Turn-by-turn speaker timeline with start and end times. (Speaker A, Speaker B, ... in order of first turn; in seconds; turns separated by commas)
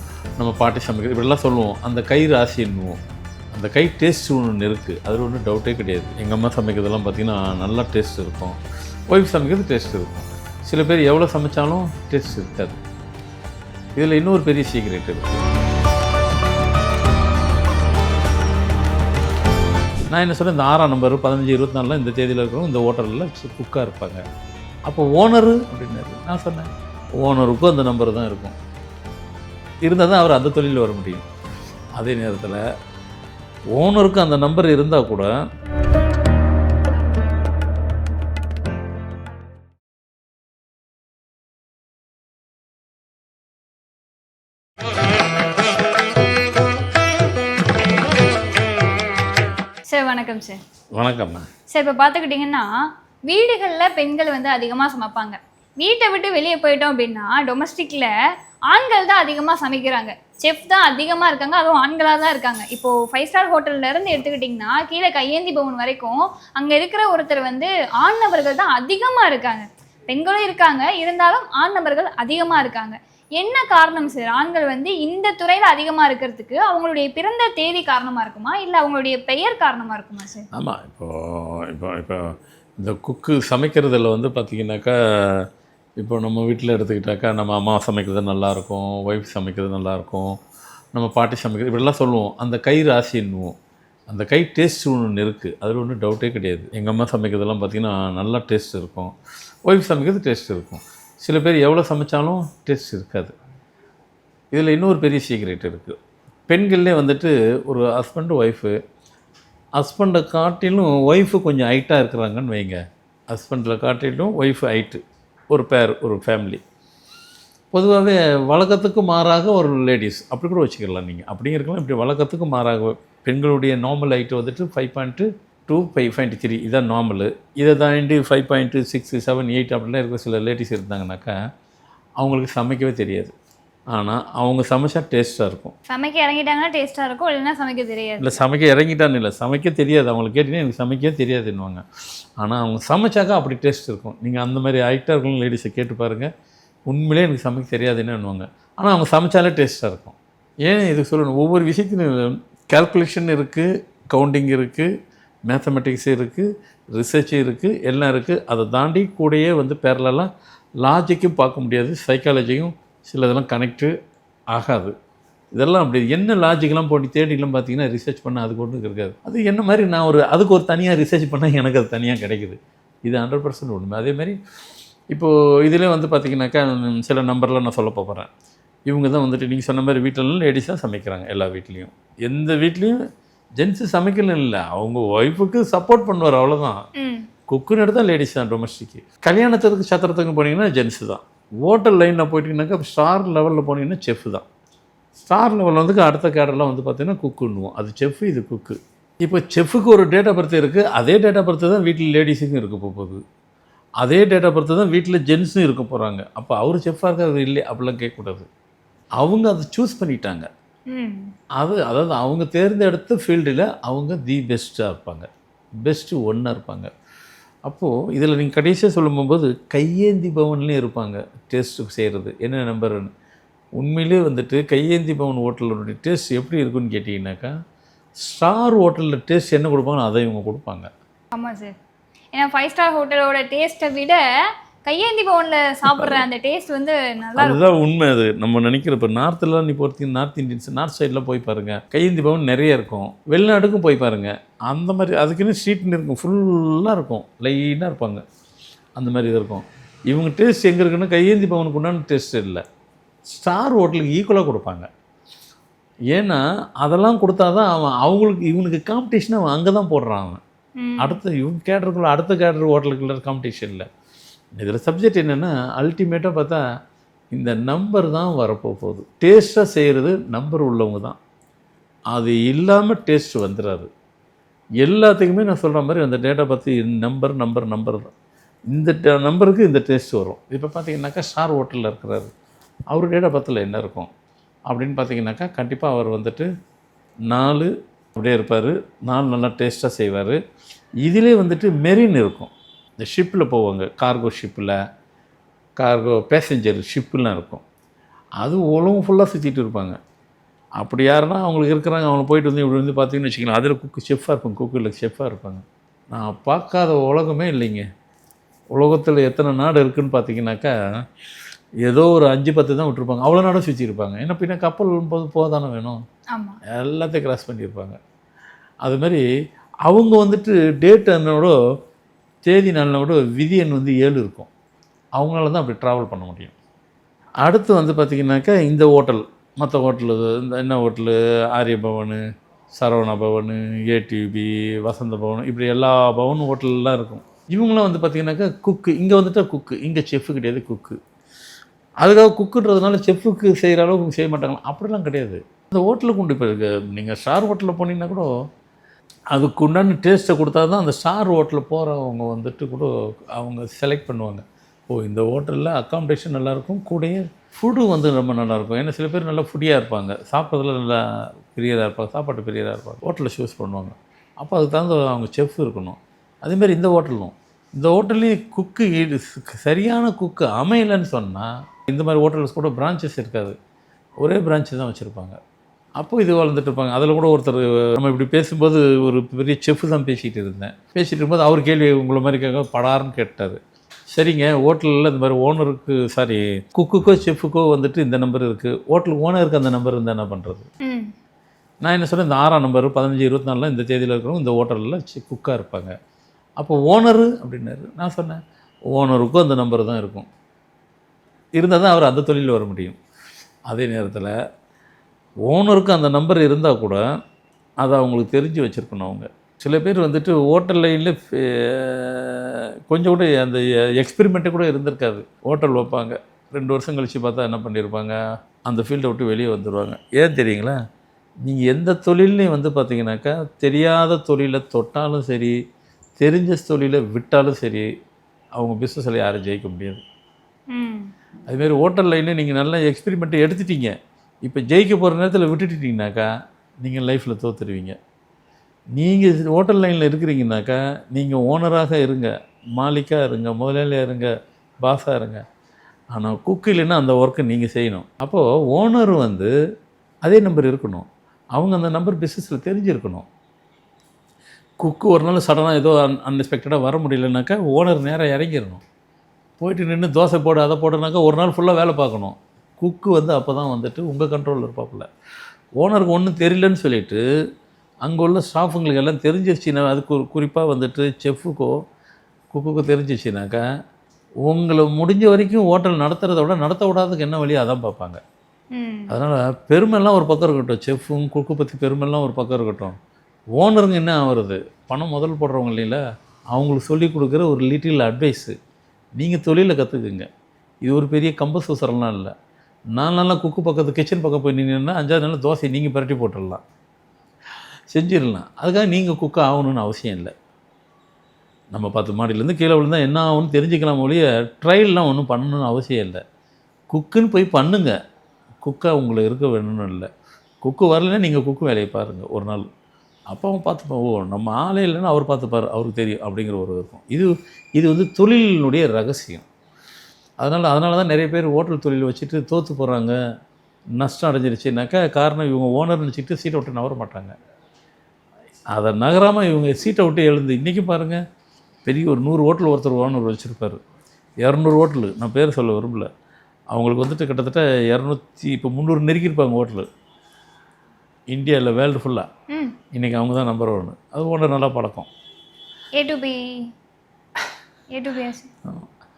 Speaker A: 0.4-3.0, Speaker A: 3.5-8.6, Speaker A: 9.1-12.8, Speaker A: 14.0-15.4, Speaker A: 20.1-24.2, Speaker A: 24.9-26.7, Speaker A: 27.2-28.6, Speaker A: 29.9-31.3, Speaker A: 32.0-32.6, Speaker A: 33.7-35.3, Speaker B: 49.9-50.6, Speaker A: 51.0-51.5, Speaker B: 51.7-52.7, Speaker B: 53.3-58.1, Speaker B: 58.7-80.5, Speaker A: 80.5-85.5, Speaker A: 86.0-90.4, Speaker A: 90.9-93.5, Speaker A: 94.1-99.1, Speaker A: 99.7-103.3, Speaker A: 104.5-106.0, Speaker A: 106.5-108.8, Speaker A: 109.8-116.6, Speaker A: 117.7-131.4, Speaker A: 132.2-133.3, Speaker A: 133.9-135.7, Speaker B: 135.9-138.4, Speaker A: 138.2-141.8, Speaker A: 142.4-146.3, Speaker A: 146.9-154.9, Speaker A: 155.5-160.3, Speaker A: 160.8-163.9, Speaker A: 164.5-164.9, Speaker A: 165.5-174.4, Speaker A: 175.1-178.3, Speaker A: 178.9-183.0, Speaker A: 183.6-186.8, Speaker B: 187.0-187.3, Speaker A: 187.5-194.4, Speaker A: 195.2-203.2, Speaker A: 204.0-208.5, Speaker A: 209.2-210.5, Speaker B: 210.9-211.3, Speaker A: 211.6-215.3, Speaker A: 215.8-216.9, Speaker A: 217.7-223.1, Speaker A: 223.8-227.5, Speaker A: 228.2-230.9, Speaker B: 231.3-231.7, Speaker B: 232.3-234.2, Speaker B: 234.8-237.7, Speaker A: 235.9-236.2, Speaker A: 237.4-248.2, Speaker A: 249.0-252.6, Speaker A: 253.3-254.9, Speaker A: 256.1-260.4, Speaker B: 260.8-261.2, Speaker A: 261.0-263.9, Speaker A: 264.6-266.6, Speaker A: 267.3-271.2, Speaker A: 272.1-273.9, Speaker A: 274.8-278.1, Speaker A: 278.7-282.3, Speaker A: 282.9-284.1, Speaker A: 284.7-286.5, Speaker A: 287.3-290.4, Speaker A: 291.0-294.8, Speaker A: 295.8-297.6, Speaker A: 298.4-300.0, Speaker A: 300.8-307.9, Speaker A: 308.7-310.7, Speaker A: 311.9-316.0, Speaker B: 316.3-316.6, Speaker A: 316.7-318.0, Speaker A: 318.8-319.2, Speaker A: 319.9-321.6, Speaker A: 322.4-324.5, Speaker A: 325.2-326.6, Speaker A: 327.4-332.2, Speaker A: 332.8-341.0, Speaker A: 342.0-348.3, Speaker A: 349.3-361.0, Speaker A: 361.5-373.6, Speaker A: 374.2-375.4, Speaker A: 376.0-383.6, Speaker A: 384.1-390.7, Speaker B: 390.8-391.1, Speaker A: 391.8-395.9, Speaker A: 396.6-398.4, Speaker A: 398.9-400.3, Speaker A: 401.6-403.0, Speaker A: 403.7-404.3, Speaker A: 405.5-407.0, Speaker A: 407.8-420.8, Speaker A: 421.4-425.6, Speaker A: 426.2-427.9, Speaker A: 428.6-430.0, Speaker B: 430.7-431.1, Speaker A: 431.5-436.3, Speaker A: 436.8-438.0, Speaker A: 439.0-444.3, Speaker A: 444.8-445.4, Speaker A: 446.1-449.5, Speaker A: 450.2-453.3, Speaker A: 454.8-458.8, Speaker A: 459.6-465.1, Speaker A: 465.8-467.2, Speaker A: 468.0-471.7, Speaker A: 472.5-473.6, Speaker A: 474.4-478.2, Speaker B: 478.7-479.1, Speaker A: 479.1-483.0, Speaker A: 483.6-488.6, Speaker A: 489.2-490.3, Speaker A: 490.8-492.3, Speaker A: 493.0-496.6, Speaker A: 497.9-500.3, Speaker A: 501.7-506.2, Speaker A: 506.9-507.9, Speaker A: 508.6-510.1, Speaker A: 510.6-512.6, Speaker A: 513.3-519.5, Speaker A: 520.4-523.1, Speaker A: 524.0-527.3, Speaker A: 528.7-531.2, Speaker A: 531.9-533.8, Speaker A: 534.4-536.1, Speaker A: 536.7-539.9, Speaker A: 541.3-542.3, Speaker B: 542.5-542.8, Speaker A: 542.9-545.1, Speaker B: 546.0-546.6, Speaker B: 547.9-548.5